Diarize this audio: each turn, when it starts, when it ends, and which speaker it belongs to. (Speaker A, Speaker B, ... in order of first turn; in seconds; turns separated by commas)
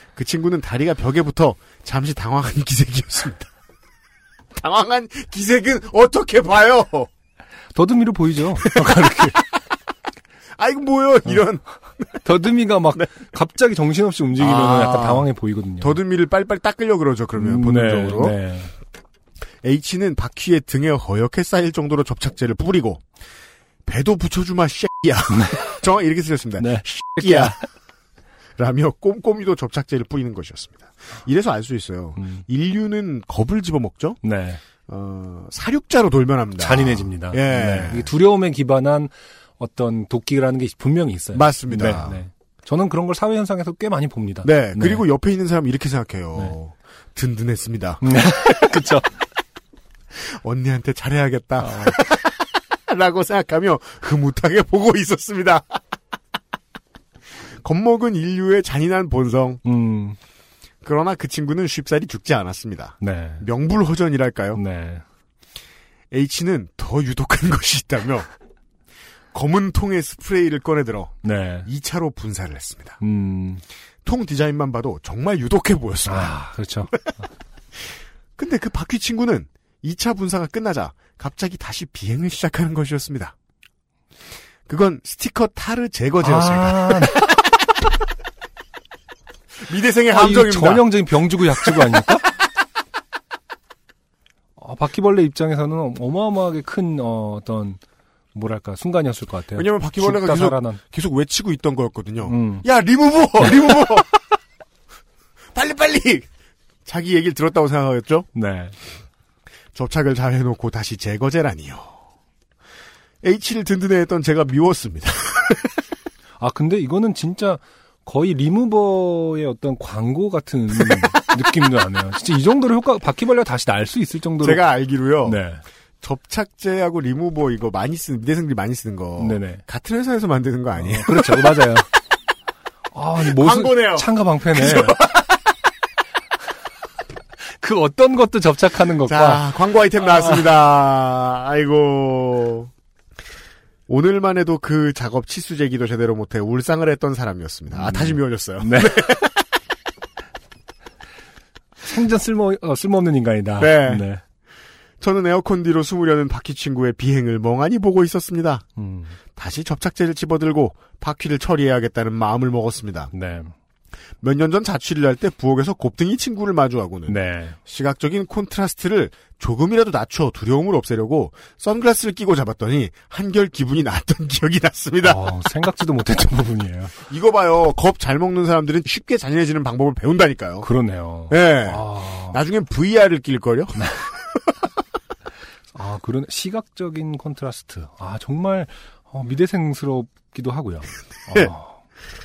Speaker A: 0.1-3.5, Speaker A: 4.5-7.1, Speaker B: 7.7-9.4, Speaker A: 8.6-9.4, Speaker A: 10.6-12.2, Speaker B: 12.2-16.0, Speaker A: 14.4-15.3, Speaker A: 15.8-18.4, Speaker B: 17.4-18.7, Speaker A: 19.6-23.0, Speaker A: 23.9-27.6, Speaker B: 25.3-25.8, Speaker B: 26.6-27.7, Speaker A: 28.6-34.2, Speaker B: 32.2-32.4, Speaker B: 34.2-34.6, Speaker A: 34.9-38.1, Speaker B: 36.6-45.0, Speaker A: 41.3-42.2, Speaker A: 44.4-48.0, Speaker B: 48.0-49.1, Speaker A: 50.3-55.8, Speaker B: 51.6-52.0, Speaker A: 57.6-59.6, Speaker B: 59.6-60.2, Speaker A: 60.8-64.6, Speaker B: 63.0-63.4, Speaker B: 64.5-65.0, Speaker A: 66.1-68.3, Speaker A: 69.3-73.0, Speaker B: 71.2-71.7, Speaker B: 73.0-73.6, Speaker A: 74.0-76.4, Speaker B: 76.0-77.0, Speaker A: 78.4-83.3, Speaker A: 84.7-87.3, Speaker B: 86.2-87.3, Speaker A: 89.6-90.9, Speaker B: 90.1-92.3, Speaker A: 91.5-92.0, Speaker B: 94.6-97.8, Speaker B: 98.3-100.8, Speaker A: 99.5-104.1, Speaker B: 102.2-102.6, Speaker B: 103.4-103.9, Speaker A: 105.5-106.2, Speaker A: 106.8-108.3, Speaker B: 108.3-108.7, Speaker A: 109.7-112.0, Speaker A: 113.2-115.7, Speaker B: 116.4-124.6, Speaker A: 124.4-125.4, Speaker B: 125.2-125.6, Speaker A: 126.0-131.8, Speaker B: 129.2-129.6, Speaker B: 130.8-131.9, Speaker B: 132.9-135.0, Speaker A: 133.2-135.4, Speaker B: 137.5-140.5, Speaker A: 139.0-142.7, Speaker A: 143.9-149.4, Speaker B: 147.7-149.1, Speaker B: 151.8-154.2, Speaker A: 153.6-154.1, Speaker A: 155.0-158.6, Speaker B: 158.8-159.2, Speaker A: 159.3-163.1, Speaker B: 163.1-163.5, Speaker A: 164.2-175.2, Speaker B: 167.1-167.6, Speaker B: 175.0-177.0, Speaker A: 177.1-180.7, Speaker B: 180.6-182.4, Speaker A: 181.3-183.8, Speaker B: 183.8-184.0, Speaker B: 185.7-191.8